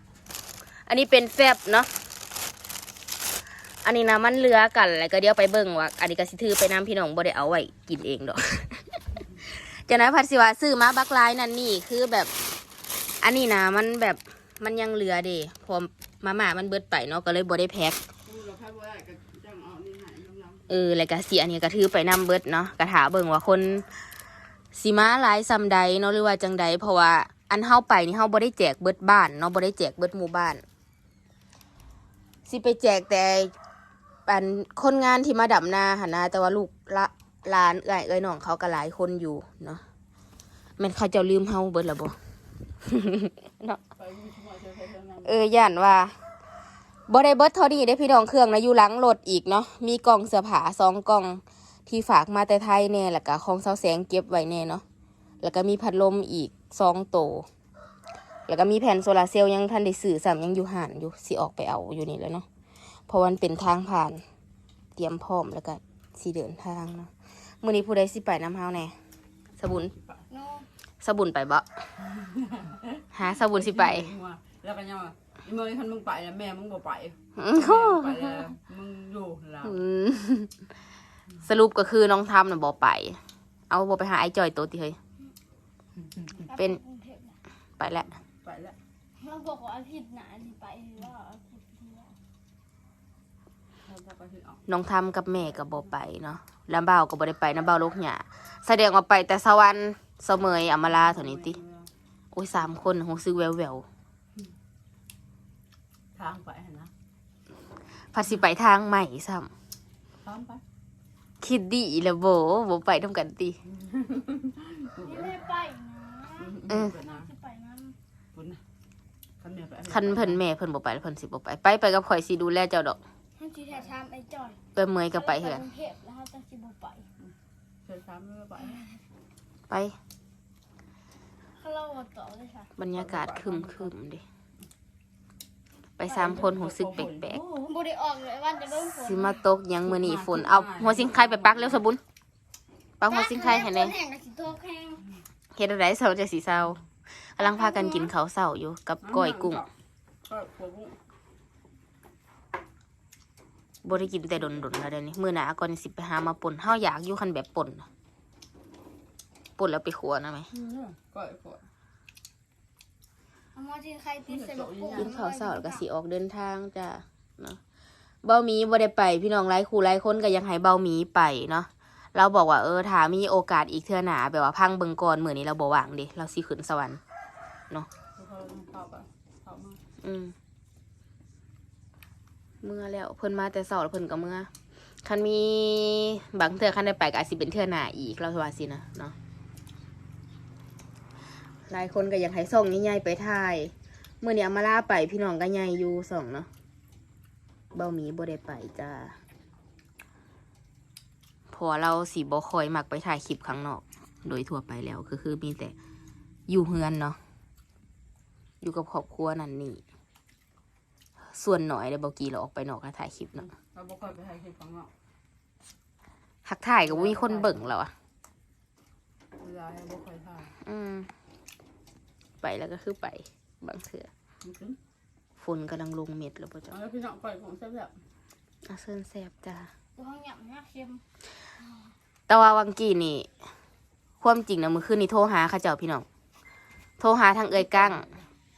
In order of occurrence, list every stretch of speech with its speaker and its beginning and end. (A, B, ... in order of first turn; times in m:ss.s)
0:00.9-0:01.9 A
0:03.8-0:08.9 A
0:09.6-0:12.3 A
0:13.2-0:18.0 A
0:18.2-0:20.7 B
0:20.7-0:23.9 A
0:24.7-0:30.6 A
0:32.5-0:33.5 A
0:34.3-0:39.8 A
0:40.8-0:42.2 A
0:42.8-0:43.8 A
0:44.0-0:45.4 B
0:45.2-0:46.1 A
0:47.1-0:54.8 A
0:55.4-0:57.5 A
0:58.5-1:02.5 A
1:03.1-1:04.2 A
1:05.0-1:08.9 A
1:09.6-1:09.9 A
1:09.9-1:10.2 B
1:10.3-1:10.7 C
1:11.0-1:11.6 A
1:12.1-1:19.8 B
1:13.1-1:14.1 A
1:17.4-1:18.4 A
1:19.6-1:20.5 A
1:21.4-1:23.2 A
1:23.7-1:25.0 A
1:26.4-1:27.4 C
1:27.8-1:28.2 A
1:28.4-1:28.8 B
1:29.2-1:32.2 C
1:33.8-1:34.6 B
1:34.7-1:41.6 A
1:35.6-1:35.8 B
1:40.8-1:41.9 B
1:42.3-1:43.8 A
1:46.2-1:46.9 B
1:48.1-1:49.5 A
1:50.2-1:50.6 B
1:51.4-1:53.6 A
1:53.7-1:55.4 B
1:55.0-1:56.5 C
1:56.4-1:57.3 B
1:57.1-1:58.0 C
1:58.3-1:58.6 B
1:59.4-2:00.4 B
1:59.9-2:03.0 A
2:03.4-2:04.6 C
2:04.8-2:05.6 A
2:05.1-2:07.1 C
2:07.8-2:08.8 B
2:08.7-2:09.0 C
2:09.7-2:09.9 A
2:11.6-2:12.7 C
2:12.8-2:14.2 A
2:12.9-2:13.9 B
2:16.0-2:17.4 A
2:16.0-2:17.3 B
2:17.3-2:19.4 C
2:18.8-2:22.0 A
2:19.8-2:21.8 B
2:23.0-2:24.0 A
2:23.0-2:25.1 C
2:25.6-2:26.8 A
2:27.3-2:29.6 A
2:27.4-2:28.1 C
2:29.0-2:29.7 B
2:30.2-2:31.0 B
2:33.8-2:37.9 A
2:39.6-2:40.5 A
2:40.5-2:41.6 B
2:43.5-2:45.8 C
2:44.3-2:45.1 B
2:44.9-2:47.6 A
2:48.2-2:57.0 A
2:58.2-2:59.8 B
3:00.0-3:00.3 A
3:02.6-3:04.5 A
3:05.0-3:09.2 A
3:11.7-3:16.5 A
3:17.7-3:19.2 A
3:21.5-3:25.8 A
3:26.5-3:27.2 A
3:28.6-3:29.8 A
3:31.3-3:33.4 A
3:33.4-3:34.9 B
3:36.4-3:37.9 A
3:36.8-3:37.6 B
3:39.4-3:40.5 B
3:40.6-3:41.1 A
3:42.4-3:44.1 A
3:44.4-3:44.8 B
3:45.4-3:46.8 A
3:46.7-3:48.0 B
3:48.7-3:49.7 A
3:50.0-3:51.0 C
3:52.3-3:53.3 A
3:54.2-3:56.0 A
3:57.0-3:58.1 A
3:57.7-3:58.2 B